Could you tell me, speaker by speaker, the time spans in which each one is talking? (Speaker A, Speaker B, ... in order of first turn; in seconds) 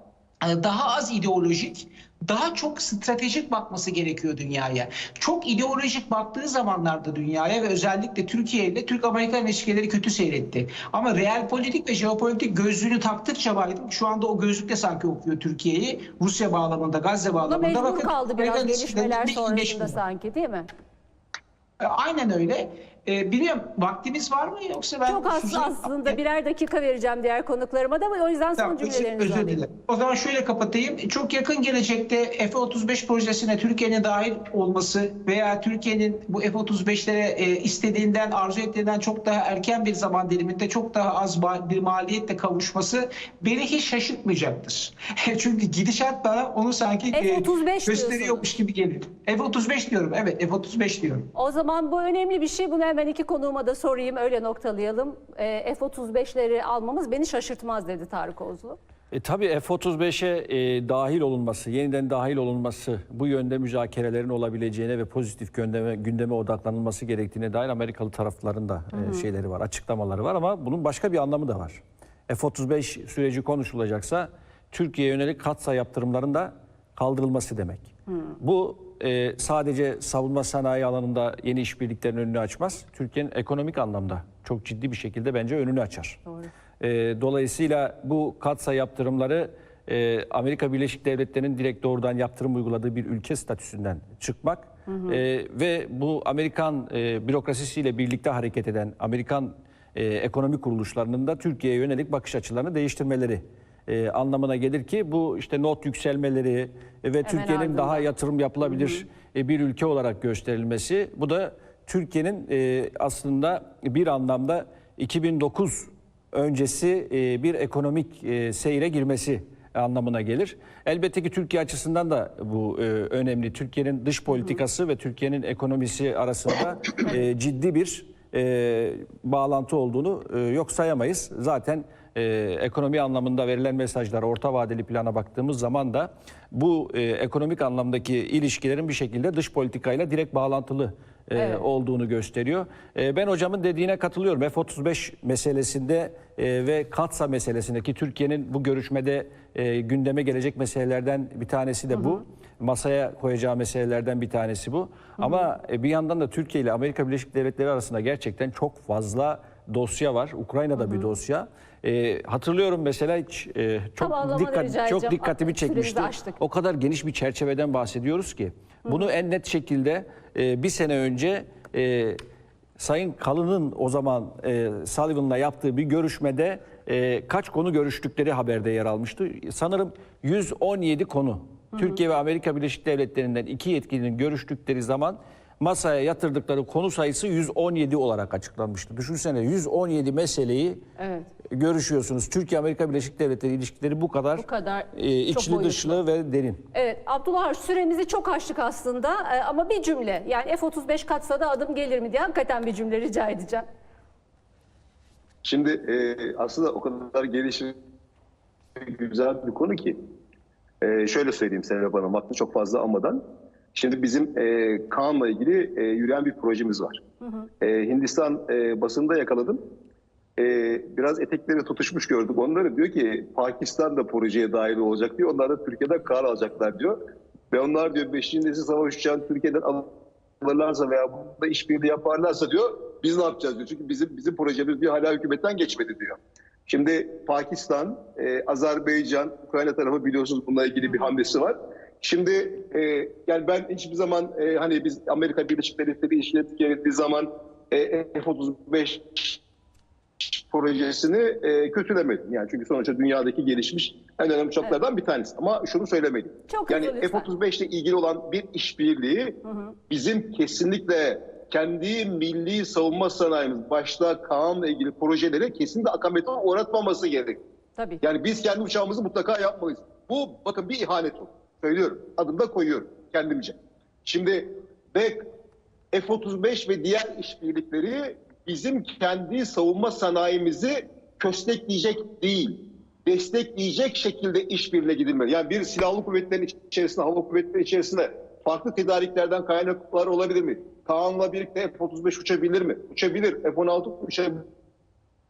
Speaker A: 0.4-20.0, 21.8-26.1, 28.6-51.3
Speaker B: 17.4-20.7, 25.1-29.6, 47.1-48.5, 51.3-58.8, 68.9-69.2, 78.1-78.3, 94.9-95.2, 107.2-108.0, 108.6-109.0, 124.3-124.6, 141.3-141.6, 151.9-152.2, 155.2-155.4, 160.8-161.1, 164.0-166.4, 191.0-191.3, 194.3-196.0, 196.7-203.7, 256.5-257.3, 259.4-259.7, 267.8-268.0
Speaker C: 59.1-86.2, 86.8-172.2, 172.8-190.8, 191.5-196.6
Speaker D: 205.4-207.8, 208.8-210.0, 210.8-213.2, 213.7-217.0, 217.6-219.6, 220.4-226.9, 227.5-229.9, 230.4-249.4, 250.2-267.4, 268.0-275.2, 275.9-294.4